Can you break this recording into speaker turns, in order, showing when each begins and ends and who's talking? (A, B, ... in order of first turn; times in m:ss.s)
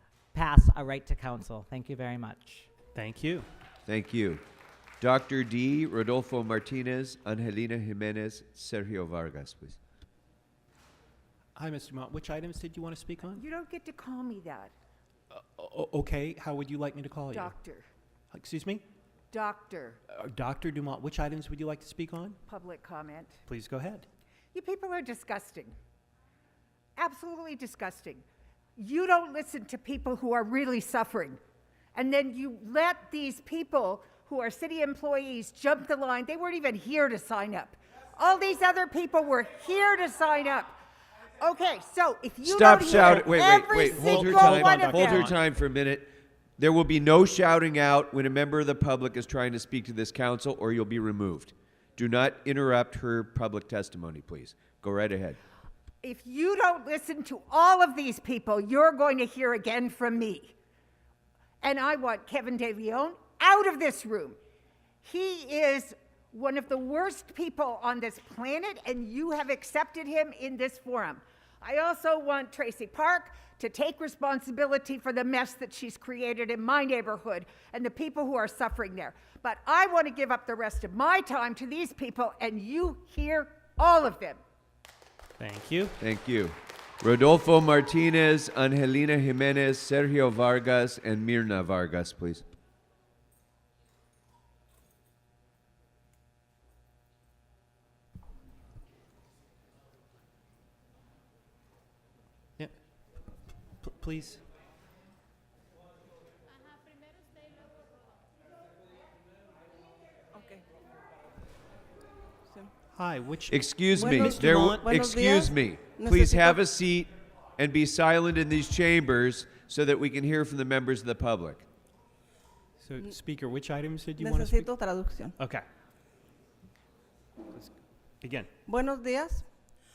0:00.3-0:02.7 A
0:02.9-0:03.5 B
0:03.9-0:04.4 C
0:05.0-0:09.8 C
0:11.6-0:13.4 B
0:13.4-0:14.7 D
0:15.3-0:17.6 B
0:17.3-0:17.8 D
0:18.3-0:18.8 B
0:19.3-0:20.0 D
0:20.1-0:22.4 B
0:22.5-0:23.4 D
0:23.5-0:24.1 B
0:24.5-0:25.8 D
0:27.0-0:28.2 D
0:28.8-0:31.4 D
0:31.9-0:40.8 D
0:41.4-0:45.3 D
0:42.4-0:55.4 C
0:42.9-0:43.3 B
0:43.8-0:45.4 B
0:56.0-1:00.5 D
1:01.6-1:04.4 D
1:05.0-1:24.4 D
1:25.4-1:25.9 B
1:26.0-1:32.4 C
1:43.8-1:44.4 B
1:50.3-1:50.6 E
1:52.9-1:54.9 B
1:53.5-2:01.6 C
1:53.9-1:56.6 E
2:02.8-2:04.7 B
2:04.2-2:05.3 E
2:05.4-2:05.6 B
2:07.5-2:08.5 B
2:08.7-2:09.4 E